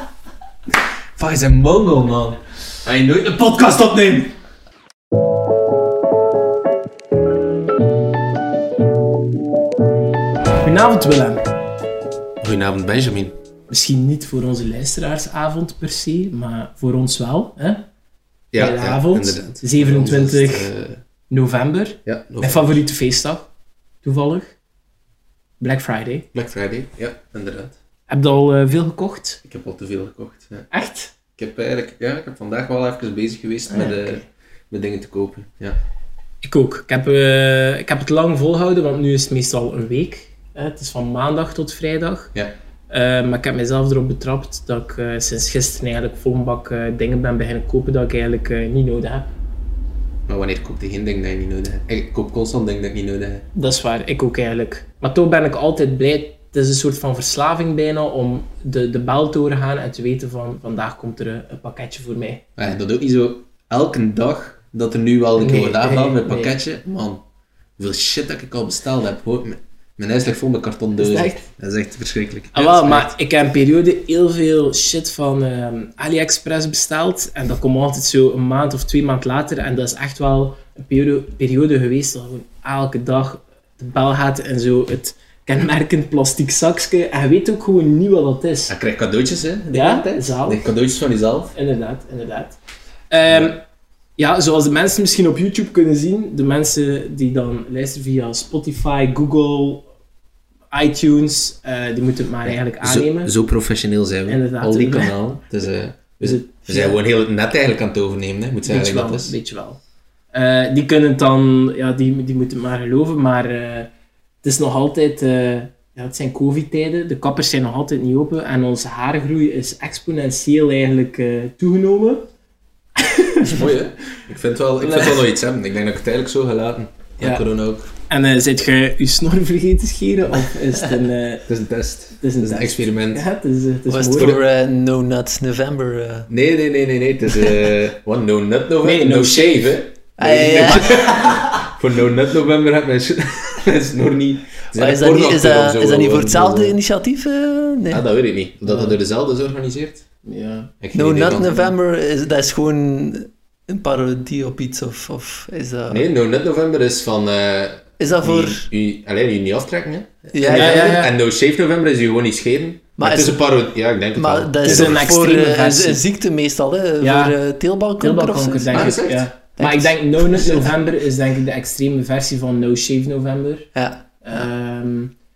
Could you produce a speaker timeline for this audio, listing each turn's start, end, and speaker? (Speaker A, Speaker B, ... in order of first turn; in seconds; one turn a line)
Speaker A: 1.2-4.3
Speaker B: 10.6-11.4
Speaker A: 12.4-13.3
Speaker B: 13.7-17.9
Speaker A: 18.5-21.0
Speaker B: 18.6-20.7
Speaker B: 21.3-23.5
Speaker A: 22.0-22.8
Speaker B: 24.0-24.5
Speaker B: 25.6-26.3
Speaker A: 26.3-27.8
Speaker B: 28.1-29.4
Speaker A: 29.4-30.7
Speaker B: 30.7-31.1
Speaker A: 31.4-35.8
Speaker B: 33.7-34.2
Speaker B: 36.4-42.3
Speaker B: 42.9-49.3
Speaker A: 50.3-53.4
Speaker B: 53.5-62.4
Speaker A: 62.6-67.2
Speaker B: 65.4-66.5
Speaker A: 67.8-73.1
Speaker B: 71.0-71.5
Speaker B: 72.5-88.7
Speaker A: 88.7-91.5
Speaker B: 89.7-90.6
Speaker B: 91.5-92.6
Speaker B: 93.1-93.6
Speaker A: 93.3-93.5
Speaker B: 94.2-99.8
Speaker B: 100.7-103.3
Speaker A: 102.4-109.3
Speaker B: 104.3-105.1
Speaker B: 106.2-107.0
Speaker B: 108.6-109.8
Speaker B: 110.3-113.9
Speaker B: 114.4-122.3
Speaker B: 123.0-123.6
Speaker A: 123.5-127.9
Speaker B: 124.8-125.2
Speaker B: 127.2-127.5
Speaker B: 128.1-131.4
Speaker A: 131.5-133.2
Speaker B: 132.2-134.4
Speaker C: 133.9-136.3
Speaker A: 136.3-146.8
Speaker B: 138.8-139.7
Speaker C: 140.2-141.7
Speaker C: 144.7-148.0
Speaker A: 147.9-150.0
Speaker B: 148.7-148.9
Speaker B: 150.2-150.7
Speaker A: 150.8-151.7
Speaker C: 150.9-156.1
Speaker A: 155.9-165.0
Speaker C: 158.0-158.7
Speaker C: 160.3-161.0
Speaker B: 160.5-161.1
Speaker C: 163.0-163.5
Speaker C: 164.2-169.0
Speaker B: 164.6-166.0
Speaker B: 167.0-167.3
Speaker B: 168.0-173.7
Speaker A: 168.7-169.3
Speaker C: 169.6-170.6
Speaker C: 173.7-174.2
Speaker B: 174.2-175.1